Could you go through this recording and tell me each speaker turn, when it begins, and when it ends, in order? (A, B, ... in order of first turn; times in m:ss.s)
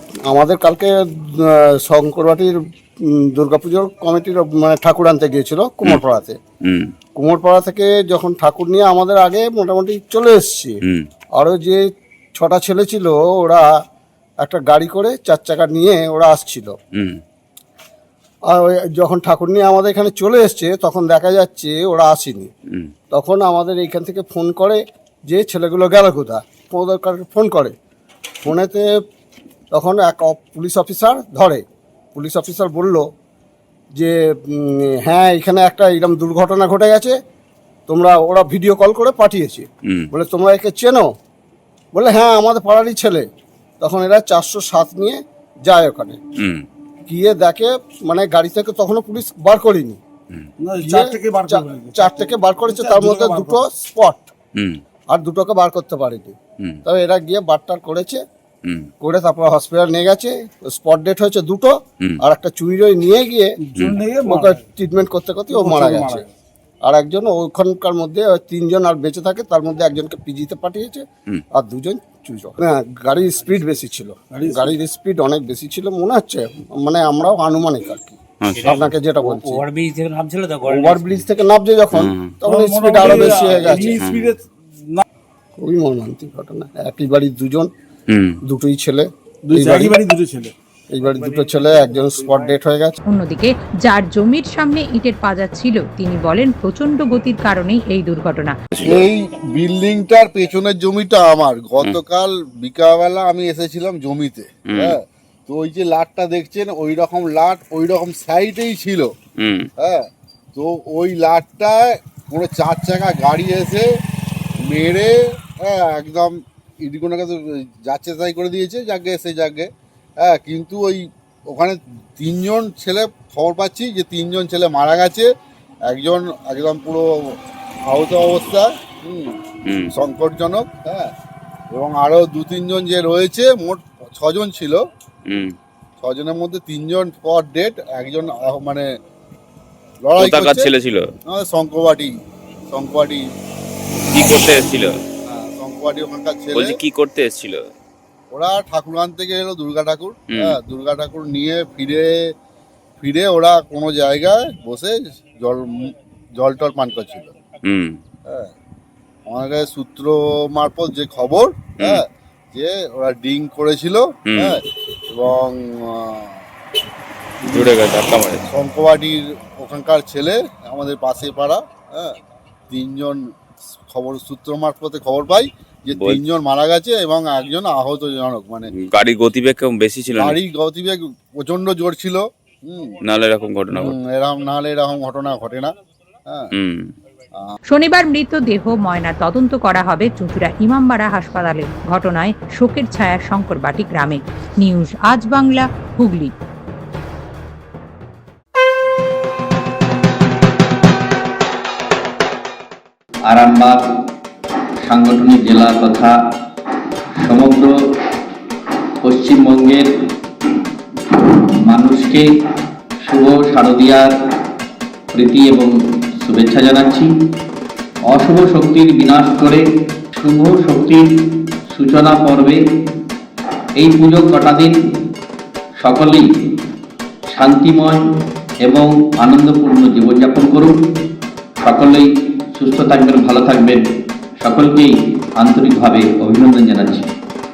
0:00.2-0:06.4 A
0:06.6-0:06.9 B
0:07.1-0:10.8 A
0:11.4-0:13.7 A
0:14.4-0:16.8 A
0:16.9-0:17.2 B
0:18.5-0:22.5 A
0:23.1-0:27.7 A
0:28.4-0:28.9 A
0:29.7-0:33.1 A
0:34.0-0:37.2 A
0:37.9-0:41.1 A
0:41.9-0:43.3 A
0:43.8-0:46.2 A
0:46.4-0:46.6 B
0:47.0-0:50.0 A
0:50.6-0:53.6 C
0:50.8-0:54.3 A
0:55.1-0:58.2 A
0:59.0-1:03.6 A
1:03.6-1:04.6 C
1:03.8-1:04.0 B
1:04.2-1:06.3 A
1:05.5-1:06.3 C
1:06.8-1:19.7 A
1:14.3-1:14.8 C
1:18.4-1:18.8 B
1:18.6-1:21.1 D
1:18.6-1:18.9 C
1:20.6-1:24.0 A
1:22.0-1:22.4 B
1:22.4-1:25.0 C
1:23.9-1:24.3 B
1:25.6-1:27.7 A
1:28.1-1:28.4 B
1:28.4-1:30.0 A
1:29.4-1:30.5 C
1:30.9-1:33.0 A
1:31.2-1:32.5 C
1:33.1-1:38.6 E
1:38.7-1:39.0 B
1:38.8-1:49.1 F
1:44.7-1:44.9 B
1:49.4-1:49.7 B
1:49.8-1:54.0 F
1:54.6-2:05.3 F
2:05.9-2:07.4 F
2:07.9-2:09.4 F
2:09.6-2:09.9 B
2:09.9-2:11.1 F
2:11.7-2:14.8 F
2:15.2-2:15.6 B
2:16.0-2:18.9 F
2:20.0-2:20.7 F
2:20.2-2:21.1 B
2:21.3-2:22.1 F
2:22.7-2:23.2 F
2:24.1-2:25.0 B
2:24.2-2:24.6 F
2:25.2-2:26.7 F
2:26.5-2:27.7 B
2:28.3-2:32.3 F
2:30.3-2:30.6 B
2:33.0-2:37.3 F
2:37.6-2:38.0 B
2:38.2-2:38.5 F
2:39.3-2:46.4 F
2:44.3-2:44.6 B
2:47.4-2:48.5 B
2:47.5-2:47.7 F
2:48.4-2:52.2 F
2:52.7-2:53.3 F
2:53.9-2:58.7 F
2:55.9-2:56.2 B
2:58.7-3:00.4 B
3:00.2-3:03.0 F
3:03.0-3:03.9 B
3:03.7-3:05.7 F
3:06.5-3:06.9 B
3:07.7-3:16.3 E
3:23.2-3:23.8 G
3:24.8-3:26.2 G
3:27.2-3:27.7 G
3:29.0-3:29.9 G
3:31.1-3:32.3 G
3:33.0-3:34.1 G
3:35.1-3:37.1 G
3:38.1-3:39.6 G
3:40.1-3:42.6 G
3:43.8-3:44.7 G
3:45.8-3:46.3 G
3:47.3-3:48.0 G
3:48.6-3:50.8 G
3:51.6-3:53.8 G
3:54.4-3:57.1 G